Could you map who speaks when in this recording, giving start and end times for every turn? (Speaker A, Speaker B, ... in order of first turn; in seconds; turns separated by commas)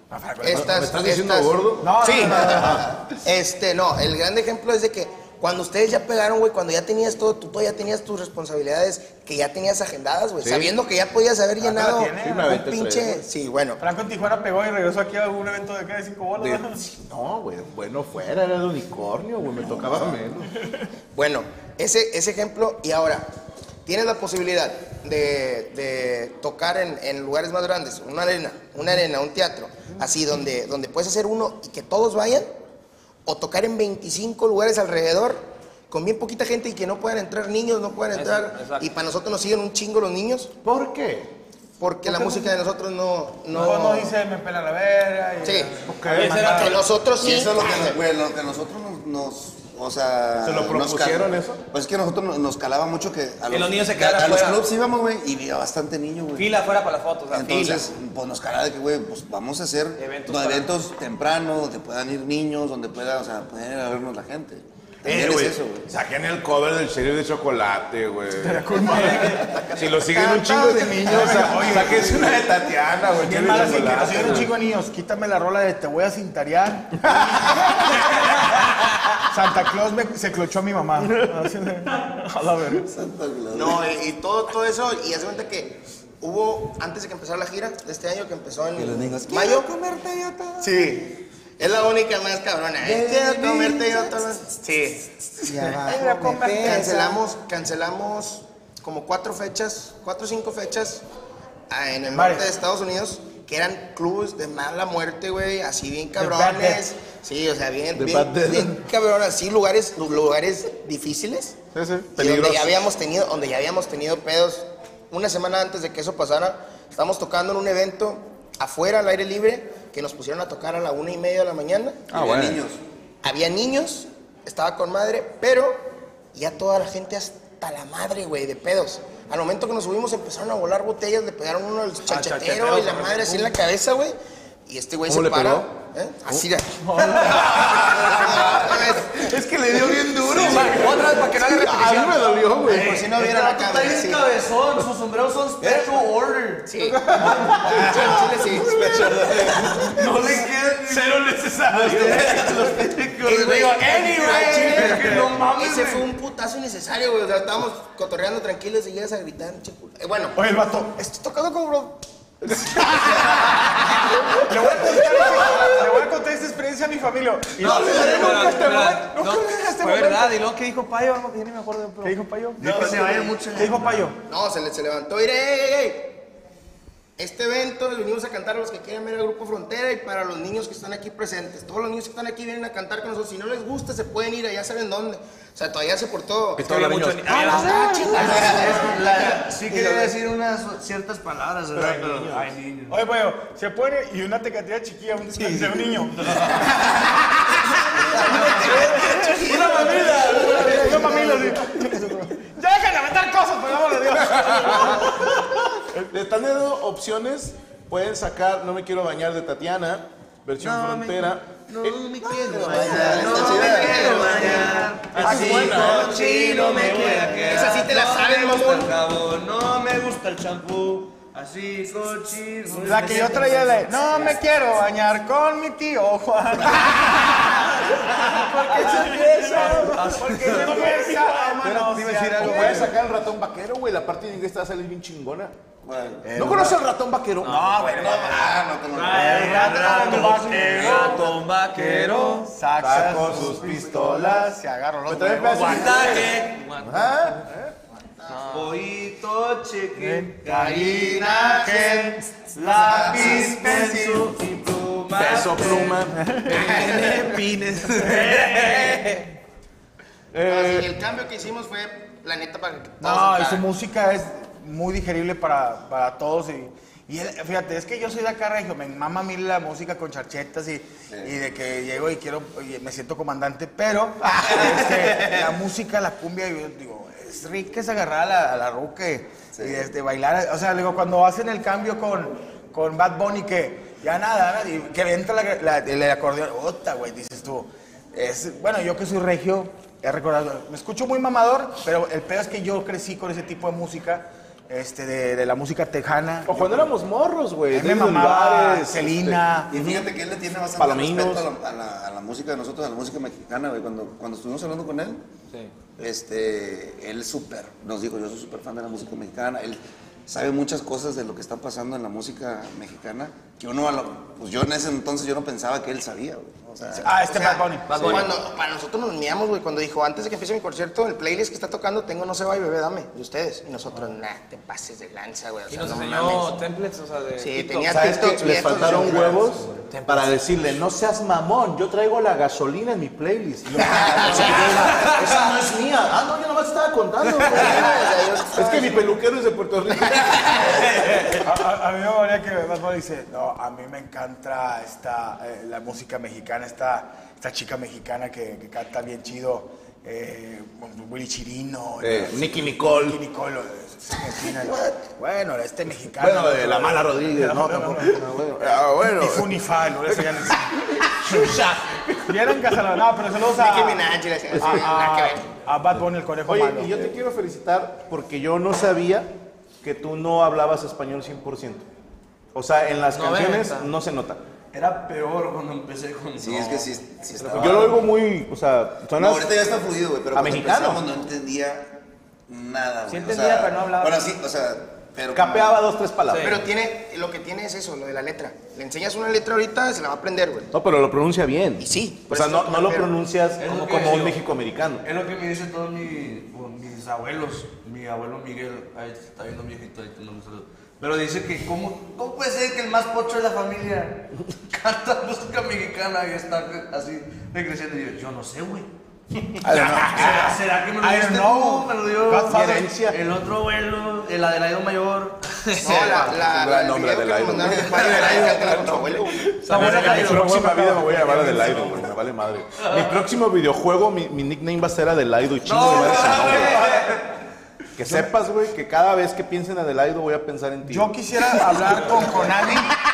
Speaker A: 0.1-0.7, Speaker B: 0.4-13.8, Speaker C: 0.5-2.9, Speaker A: 1.8-2.9, Speaker C: 10.4-10.7, Speaker A: 11.6-12.5, Speaker C: 12.2-13.3, Speaker A: 13.8-16.8, Speaker C: 16.4-20.6, Speaker B: 21.1-23.3, Speaker B: 23.9-32.5, Speaker B: 33.3-40.5, Speaker D: 38.1-38.9, Speaker C: 40.6-41.3, Speaker B: 41.8-44.1, Speaker A: 42.1-42.4, Speaker A: 43.5-46.8, Speaker B: 45.4-45.7, Speaker C: 45.9-46.4, Speaker D: 46.1-46.8, Speaker B: 46.3-48.0, Speaker E: 47.2-56.5, Speaker C: 50.4-51.6, Speaker D: 53.5-54.7, Speaker D: 56.4-57.8, Speaker E: 57.3-65.9, Speaker D: 60.0-60.7, Speaker C: 65.0-74.5, Speaker A: 68.4-72.4, Speaker A: 73.2-82.9, Speaker E: 82.9-83.8, Speaker B: 83.5-89.7, Speaker F: 88.8-90.8, Speaker B: 90.6-95.1, Speaker F: 92.8-94.3, Speaker A: 95.4-97.0, Speaker F: 95.4-97.2, Speaker B: 95.9-101.0, Speaker B: 101.7-111.6, Speaker A: 102.1-102.5, Speaker A: 106.2-106.8, Speaker C: 107.9-108.9, Speaker C: 111.7-112.9, Speaker B: 112.2-122.0, Speaker C: 122.1-122.7, Speaker E: 122.1-122.8, Speaker B: 123.2-139.3, Speaker D: 132.1-133.5, Speaker C: 135.1-135.7, Speaker C: 137.2-143.1, Speaker D: 140.3-142.6, Speaker B: 142.7-144.3, Speaker G: 142.7-148.1, Speaker C: 145.6-145.9, Speaker B: 146.7-148.9, Speaker C: 147.1-152.9, Speaker G: 149.2-156.1, Speaker B: 153.2-160.4, Speaker C: 154.4-155.2, Speaker A: 160.3-170.4, Speaker C: 165.1-165.7, Speaker D: 167.6-172.5, Speaker C: 167.6-169.0, Speaker G: 167.9-168.3, Speaker A: 172.0-174.2, Speaker G: 172.6-174.1, Speaker B: 174.2-176.3, Speaker B: 177.2-186.7, Speaker C: 186.6-188.4, Speaker D: 186.6-188.1, Speaker B: 187.4-189.4, Speaker G: 188.1-193.0, Speaker C: 191.8-192.5, Speaker A: 192.9-205.4, Speaker G: 195.4-195.7, Speaker G: 198.3-201.5, Speaker C: 200.7-201.4, Speaker C: 204.8-205.1, Speaker C: 206.0-213.7, Speaker G: 210.6-224.4, Speaker E: 212.7-214.7, Speaker B: 212.9-218.9, Speaker C: 215.1-216.1, Speaker A: 215.2-216.0, Speaker A: 222.8-232.9, Speaker C: 228.2-235.6, Speaker D: 229.6-230.7, Speaker D: 231.8-232.8, Speaker E: 235.8-236.3, Speaker C: 236.3-237.8, Speaker A: 236.4-236.7, Speaker D: 237.4-238.2, Speaker A: 237.4-241.4, Speaker E: 238.0-239.7, Speaker G: 238.9-242.5, Speaker D: 239.8-242.4, Speaker A: 242.1-246.3, Speaker C: 242.8-244.6, Speaker C: 245.1-247.5, Speaker D: 245.7-247.0, Speaker G: 246.0-246.7, Speaker D: 248.3-248.7, Speaker G: 248.5-259.1, Speaker A: 250.0-254.1, Speaker C: 255.2-256.3, Speaker A: 256.2-256.6, Speaker D: 256.7-259.1, Speaker C: 260.3-260.9, Speaker B: 260.5-263.7, Speaker A: 263.0-296.9, Speaker E: 279.6-279.9, Speaker C: 296.5-300.1, Speaker A: 297.7-299.8, Speaker E: 299.7-305.2, Speaker C: 300.8-301.5, Speaker E: 306.0-317.2, Speaker A: 316.9-318.1, Speaker B: 317.2-326.6, Speaker G: 317.9-318.2, Speaker D: 325.7-327.9, Speaker B: 327.4-329.6, Speaker C: 327.9-341.3, Speaker D: 329.9-330.4, Speaker A: 333.7-334.7, Speaker B: 333.8-335.1, Speaker D: 335.0-335.3, Speaker B: 337.4-339.1, Speaker A: 341.1-361.7, Speaker C: 352.0-353.2, Speaker C: 356.2-362.5, Speaker A: 362.3-367.1, Speaker B: 363.4-365.5, Speaker C: 366.5-369.3, Speaker C: 369.8-371.9, Speaker C: 372.6-374.4, Speaker D: 373.1-373.9, Speaker G: 374.7-377.7, Speaker E: 376.4-378.0, Speaker D: 377.5-377.8, Speaker C: 377.5-379.6, Speaker E: 379.2-385.8, Speaker C: 380.3-381.0, Speaker D: 383.1-384.3, Speaker C: 385.3-386.6, Speaker D: 386.3-386.6, Speaker B: 386.4-390.7, Speaker C: 390.7-395.1, Speaker B: 391.8-393.1, Speaker G: 393.6-394.5, Speaker G: 395.0-408.9, Speaker G: 409.6-416.3, Speaker C: 409.6-410.5, Speaker A: 409.7-413.0, Speaker C: 412.5-413.2, Speaker B: 415.8-419.5, Speaker C: 416.3-426.8, Speaker E: 417.9-419.1, Speaker G: 419.6-420.6, Speaker D: 419.7-421.1, Speaker A: 419.8-421.0, Speaker G: 421.2-422.0, Speaker G: 422.8-423.2, Speaker G: 425.6-427.2, Speaker C: 428.0-431.1, Speaker A: 430.9-432.9